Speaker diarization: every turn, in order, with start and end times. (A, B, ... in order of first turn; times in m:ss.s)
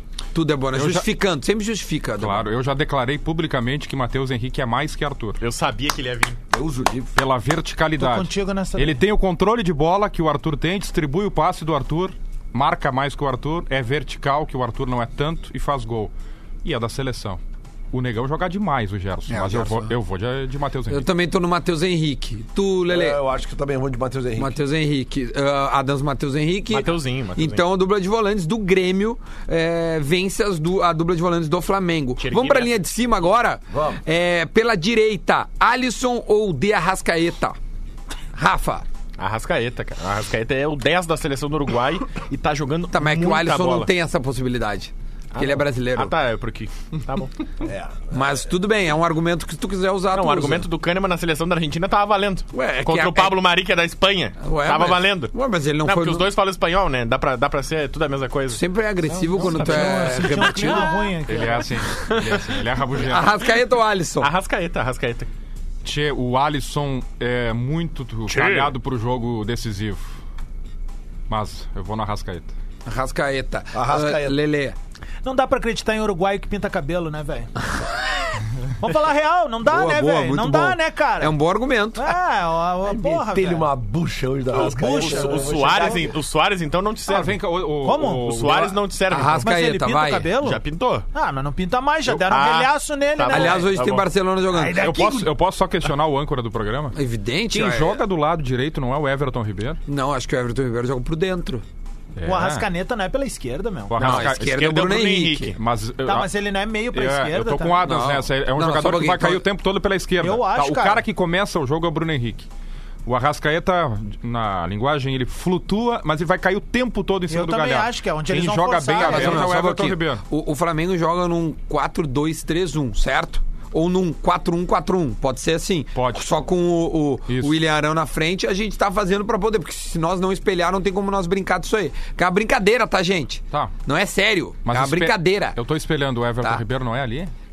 0:00.3-0:02.4 A
0:00.7-0:01.1 B
0:02.2-0:05.4 B
0:05.4-0:06.4 C
0:06.5-0:07.1 D
0:07.1-0:16.1 B
0:08.0-0:09.0 E
0:16.6-0:17.4 B
0:17.9-0:21.1 B
0:19.3-0:19.7 A
0:19.5-0:19.7 D
0:20.9-0:23.2 A
0:22.9-0:24.6 D
0:24.4-0:37.6 A
0:26.7-0:27.6 C
0:32.2-0:32.7 C
0:33.7-0:34.0 D
0:38.3-0:38.8 A
0:39.2-0:43.9 C
0:42.9-0:46.1 A
0:45.3-0:47.3 C
0:47.6-0:48.5 D
0:48.1-0:50.6 A
0:50.1-0:58.6 C
0:52.5-0:53.3 A
0:54.4-0:56.3 A
0:58.5-1:00.9 A
0:59.1-1:01.7 E
0:59.2-1:00.7 C
1:01.2-1:03.4 B
1:02.0-1:03.1 C
1:03.0-1:04.3 A
1:04.2-1:05.3 C
1:05.8-1:10.1 B
1:08.3-1:08.7 C
1:11.3-1:12.5 B
1:12.8-1:14.8 A
1:13.7-1:14.4 D
1:15.2-1:17.5 E
1:18.8-1:21.3 E
1:19.6-1:22.1 A
1:22.0-1:23.7 E
1:22.8-1:26.1 D
1:24.5-1:25.9 E
1:24.6-1:27.4 C
1:27.1-1:28.8 B
1:27.8-1:28.4 E
1:28.2-1:29.5 C
1:29.1-1:30.3 A
1:29.4-1:30.6 E
1:30.4-1:31.0 C
1:31.1-1:33.6 E
1:32.1-1:34.0 C
1:33.3-1:34.9 A
1:34.5-1:35.3 E
1:34.7-1:37.0 B
1:36.9-1:38.0 A
1:37.5-1:39.8 B
1:39.9-1:41.6 A
1:42.2-1:42.6 B
1:42.2-1:44.0 E
1:43.9-1:44.6 B
1:44.0-1:45.6 C
1:44.0-1:45.5 A
1:45.6-1:46.3 B
1:46.0-1:47.8 E
1:46.9-1:52.5 B
1:47.8-1:49.4 A
1:50.2-1:51.0 E
1:53.0-2:00.2 B
1:57.3-1:59.5 E
1:59.0-2:15.6 A
2:05.9-2:06.2 B
2:07.3-2:07.6 B
2:14.6-2:17.3 B